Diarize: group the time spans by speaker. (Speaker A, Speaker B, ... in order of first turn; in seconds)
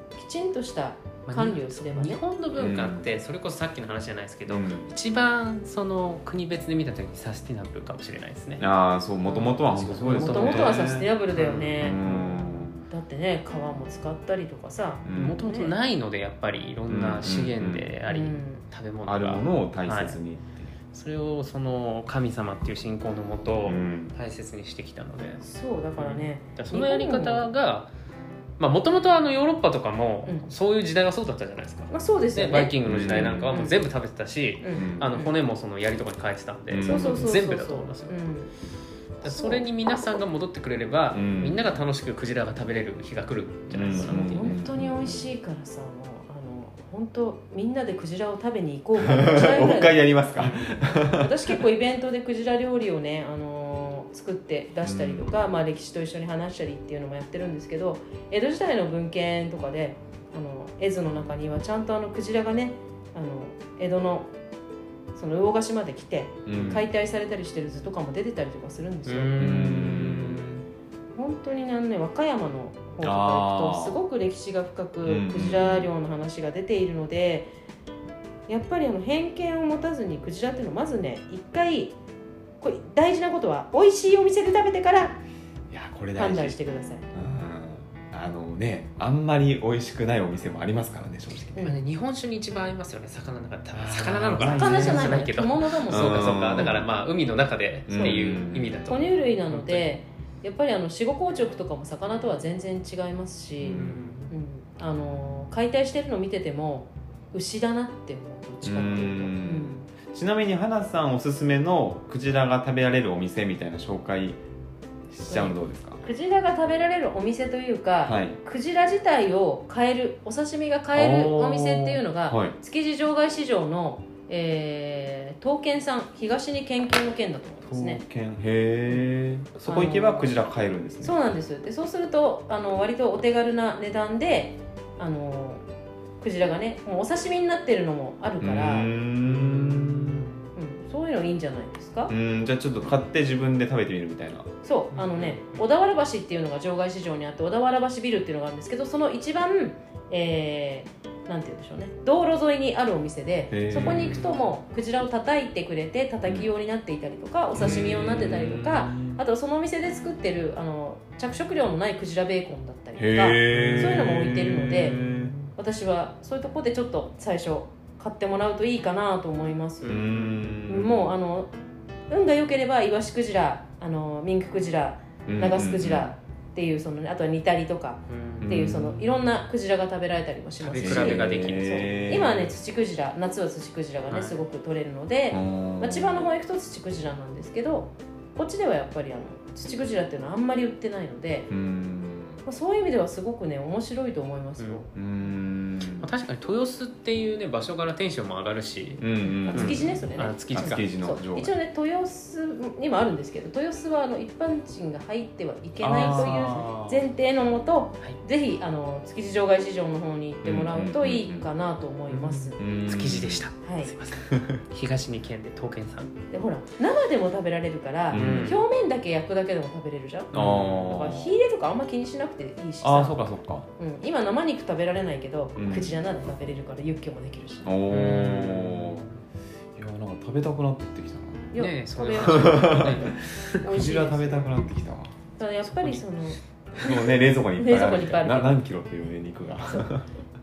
Speaker A: 0.1-2.2, 9.2-15.7, 18.1-18.6, 25.4-27.5, 31.9-33.8, 34.6-35.3, 36.9-38.5, 39.2-39.6, 44.0-50.1, 50.9-64.3, 65.1-69.8, 71.1-77.5, 78.5-81.9, 82.6-85.2, 86.2-87.1, 94.4-96.8, 97.9-98.2, 98.9-109.8, 115.3-128.0, 129.7-130.3, 131.0-135.6, 136.2-138.9, 140.5-142.1, 144.6-165.0, 165.6-170.0, 170.7-171.5, 172.1-191.5, 192.4-194.9, 199.4-212.6, 213.6-213.9, 216.3-227.7, 231.5-234.5, 235.4-238.6
Speaker B: 1.3-8.6, 9.7-12.2, 15.1-20.2, 20.9-25.4, 26.0-27.9, 28.6-38.1, 39.2-44.6, 69.1-70.6, 91.6-99.9, 103.7-104.3, 139.2-140.4, 144.9-145.6, 153.8-154.2, 163.5-164.1, 164.9-165.3, 169.9-170.6, 178.1-178.5, 180.6-181.9, 184.1-184.4, 196.0-200.9, 205.9-206.6, 212.1-216.1, 218.1-218.6, 220.3-220.7, 227.9-229.1, 231.6-233.6, 235.6-236.0
Speaker C: 2.6-3.1, 4.5-4.9, 8.6-11.1, 11.8-12.8, 15.1-15.4, 16.9-17.9, 19.1-20.7, 23.6-24.1, 32.8-33.6, 34.8-35.1, 36.7-37.3, 41.1-41.6, 43.7-45.3, 49.0-51.5, 54.9-55.4, 66.5-66.9, 69.4-70.6, 73.0-74.0, 75.0-75.9, 85.7-86.6, 87.1-91.6, 93.7-95.3, 95.9-96.8, 97.9-98.8, 103.6-104.0, 108.6-114.4, 115.1-116.0, 118.0-118.4, 121.0-122.5, 127.7-131.2, 138.4-140.3, 142.1-144.5, 153.5-154.2, 157.6-159.2, 163.0-165.3, 169.9-171.1, 175.2-176.1, 178.4-179.0, 180.8-182.5, 185.3-186.3, 191.5-192.4, 194.9-196.1, 199.0-201.5, 205.8-207.1, 210.4-211.5, 212.6-213.4, 214.3-214.6, 218.1-218.6, 220.3-221.4, 222.8-223.7, 225.6-226.0, 227.6-229.1, 229.8-231.5, 232.2-235.1, 236.8-240.1